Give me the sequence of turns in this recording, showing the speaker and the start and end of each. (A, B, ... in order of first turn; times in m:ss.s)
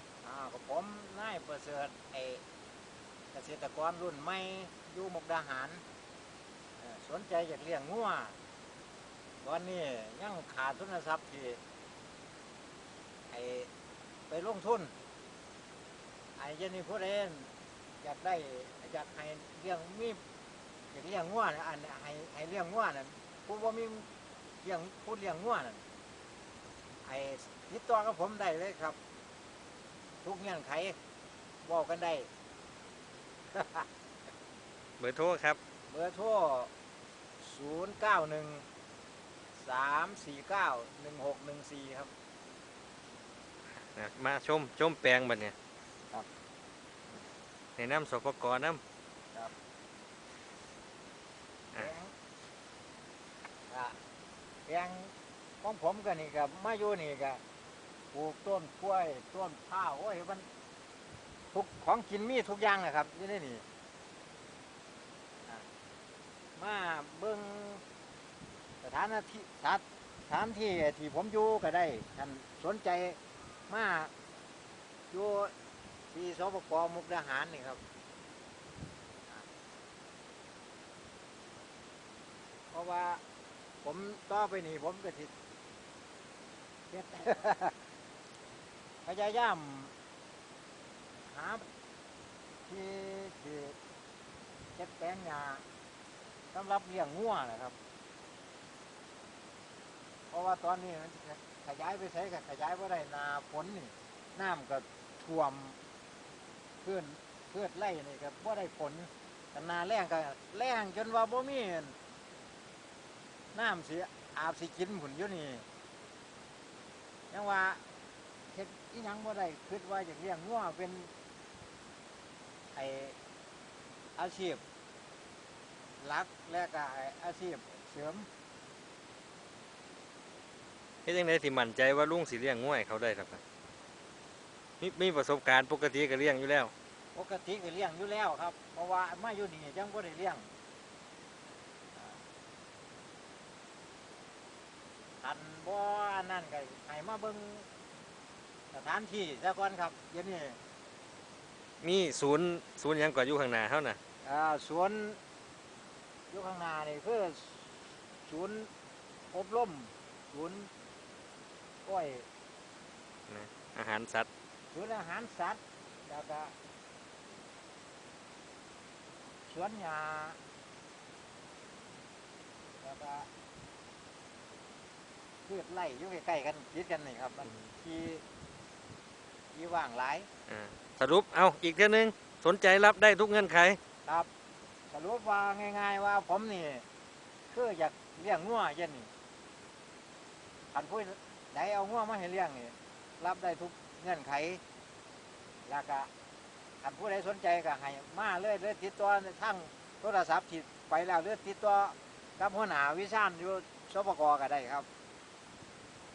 0:00.2-0:02.4 A
0:03.3-0:05.8 A
0:06.8-0:08.4 A
0:09.4-0:11.6 A
0:13.3-0:13.7 A
0:14.3-0:14.9 A
0:16.4-0:20.2 A
0:20.9-0:24.1 A
0:24.6-0:25.8 A
0:27.0-0:29.0 A
0:30.2-0:31.0 A
0:31.6-0:32.3 A
0:33.5-0:33.9 A
0:35.0-0:35.6 B
0:35.9-0:36.7 A
0:37.4-0:38.6 A
0:39.6-0:42.1 A
0:43.8-0:45.5 B
0:47.8-0:48.8 B
0:51.7-0:52.1 A
0:53.7-0:54.0 A
0:54.6-0:57.4 A
0:58.1-1:00.5 A
1:01.5-1:03.6 A
1:06.6-1:07.8 A
1:08.8-1:14.1 A
1:15.1-1:15.5 A
1:16.1-1:17.8 A
1:22.7-1:23.2 A
1:23.8-1:25.3 A
1:26.9-1:27.8 A
1:29.0-1:29.9 A
1:31.2-1:31.6 A
1:32.6-1:33.8 A
1:34.8-1:35.6 A
1:36.5-1:37.7 A
1:40.3-1:45.8 A
1:46.8-1:52.0 A
1:53.5-1:55.6 A
1:57.3-1:57.8 A
1:58.5-2:01.1 A
2:02.7-2:03.2 A
2:04.2-2:04.6 A
2:06.0-2:08.3 A
2:11.0-2:13.4 B
2:14.8-2:16.7 B
2:17.1-2:20.5 A
2:21.9-2:22.2 A
2:25.2-2:27.7 A
2:28.7-2:30.6 A
2:31.8-2:34.0 B
2:34.2-2:35.2 A
2:36.3-2:38.7 A
2:39.3-2:40.7 A
2:41.8-2:42.3 A
2:43.3-2:44.3 B
2:44.7-2:46.5 A
2:49.5-2:50.4 A
2:52.8-2:53.3 A
2:55.5-2:58.2 A
2:59.5-3:00.3 A
3:00.5-3:03.8 B
3:04.9-3:06.8 A
3:07.5-3:09.1 A
3:10.7-3:14.6 A
3:15.6-3:16.1 A
3:16.8-3:24.9 A